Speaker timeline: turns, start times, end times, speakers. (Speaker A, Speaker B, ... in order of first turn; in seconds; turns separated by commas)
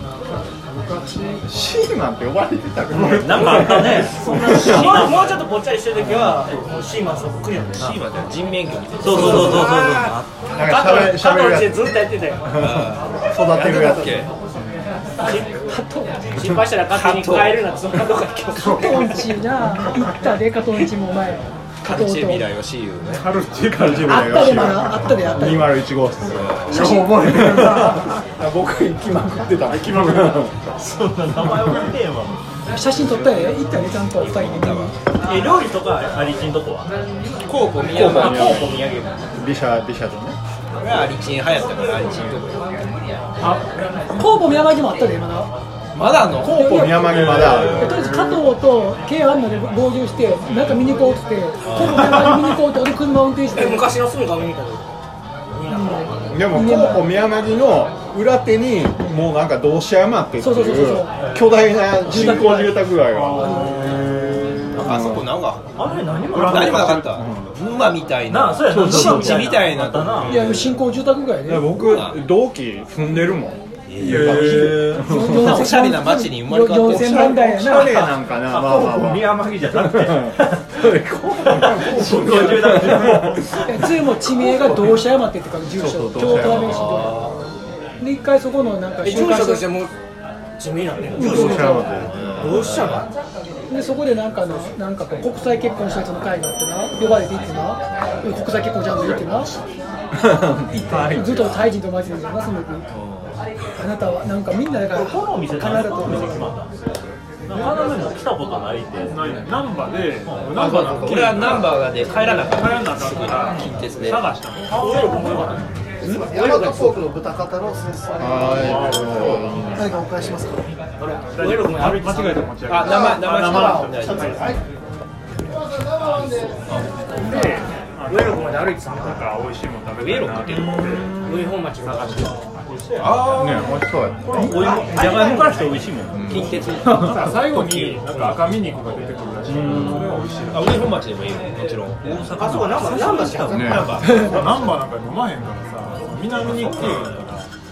Speaker A: 0.2-1.5, Speaker B: 1.5-5.0, Speaker A: 2.9-5.4, Speaker C: 3.1-5.4, Speaker D: 4.5-8.0, Speaker A: 6.3-6.8, Speaker E: 7.8-10.1, Speaker C: 9.0-10.3, Speaker D: 9.1-12.5, Speaker B: 10.5-14.2, Speaker E: 12.6-14.3, Speaker D: 13.6-14.2, Speaker D: 15.2-19.3, Speaker E: 16.9-17.6, Speaker F: 18.5-22.4, Speaker A: 18.6-19.1, Speaker A: 19.7-20.1, Speaker E: 21.8-23.3, Speaker A: 23.1-24.9, Speaker B: 23.8-30.5, Speaker F: 24.0-25.8, Speaker E: 26.3-26.9, Speaker A: 26.6-28.2, Speaker F: 26.7-27.1, Speaker A: 29.6-30.8, Speaker C: 30.8-32.4, Speaker F: 32.7-34.9, Speaker E: 34.1-35.0, Speaker C: 35.2-36.9, Speaker E: 37.4-39.3, Speaker B: 37.9-40.4, Speaker E: 40.8-42.7, Speaker F: 44.1-45.5, Speaker E: 45.9-47.5, Speaker B: 46.4-48.1, Speaker F: 46.4-53.9, Speaker A: 46.9-48.5, Speaker E: 51.6-52.0, Speaker D: 53.5-54.9, Speaker D: 55.5-56.1, Speaker F: 55.7-57.1, Speaker B: 56.3-65.3, Speaker F: 60.4-61.1, Speaker C: 61.2-61.4, Speaker F: 61.9-63.9, Speaker A: 62.2-65.0, Speaker E: 64.7-65.7, Speaker C: 65.7-67.0, Speaker E: 66.2-70.7, Speaker A: 66.3-67.1, Speaker B: 66.4-67.5, Speaker C: 68.3-70.6, Speaker B: 68.7-69.7, Speaker F: 70.2-71.7, Speaker B: 71.5-75.7, Speaker E: 71.7-72.2, Speaker C: 73.9-75.1, Speaker E: 73.9-78.2, Speaker A: 74.0-74.8, Speaker F: 75.0-78.1, Speaker B: 76.8-83.5, Speaker C: 78.4-83.6, Speaker A: 81.9-83.4, Speaker F: 83.6-87.2, Speaker C: 84.4-84.9, Speaker C: 85.8-86.9, Speaker B: 86.1-87.0, Speaker E: 86.7-87.5, Speaker F: 88.0-89.7, Speaker D: 89.0-89.9, Speaker D: 90.6-91.8, Speaker F: 91.1-91.9, Speaker B: 91.1-92.7, Speaker D: 92.4-93.1, Speaker F: 93.7-99.5, Speaker B: 100.1-101.5, Speaker F: 100.7-102.8, Speaker C: 101.1-101.5, Speaker E: 103.0-103.3, Speaker F: 103.8-106.5, Speaker C: 104.9-106.7, Speaker C: 107.5-109.3, Speaker A: 107.5-107.9, Speaker A: 109.0-115.6, Speaker C: 110.2-110.7, Speaker E: 110.5-114.3, Speaker D: 114.7-117.1, Speaker C: 114.8-115.6, Speaker G: 116.0-120.7, Speaker B: 118.2-119.9, Speaker A: 118.5-119.6, Speaker D: 121.0-122.7, Speaker A: 121.3-124.5, Speaker E: 122.7-124.5, Speaker G: 123.0-124.6, Speaker G: 125.4-126.7, Speaker A: 127.2-133.2, Speaker D: 127.2-129.4, Speaker D: 130.1-130.6, Speaker D: 131.2-132.4, Speaker E: 132.9-133.8, Speaker B: 133.3-134.5, Speaker C: 134.3-136.7, Speaker E: 134.6-135.6, Speaker D: 134.7-135.7, Speaker B: 136.1-137.2, Speaker E: 136.3-138.4, Speaker A: 136.8-141.0, Speaker B: 139.5-140.1, Speaker C: 139.5-140.1, Speaker E: 140.5-142.3, Speaker C: 142.0-144.2, Speaker D: 142.3-144.0, Speaker E: 143.5-144.8, Speaker B: 143.5-143.9, Speaker A: 144.0-147.4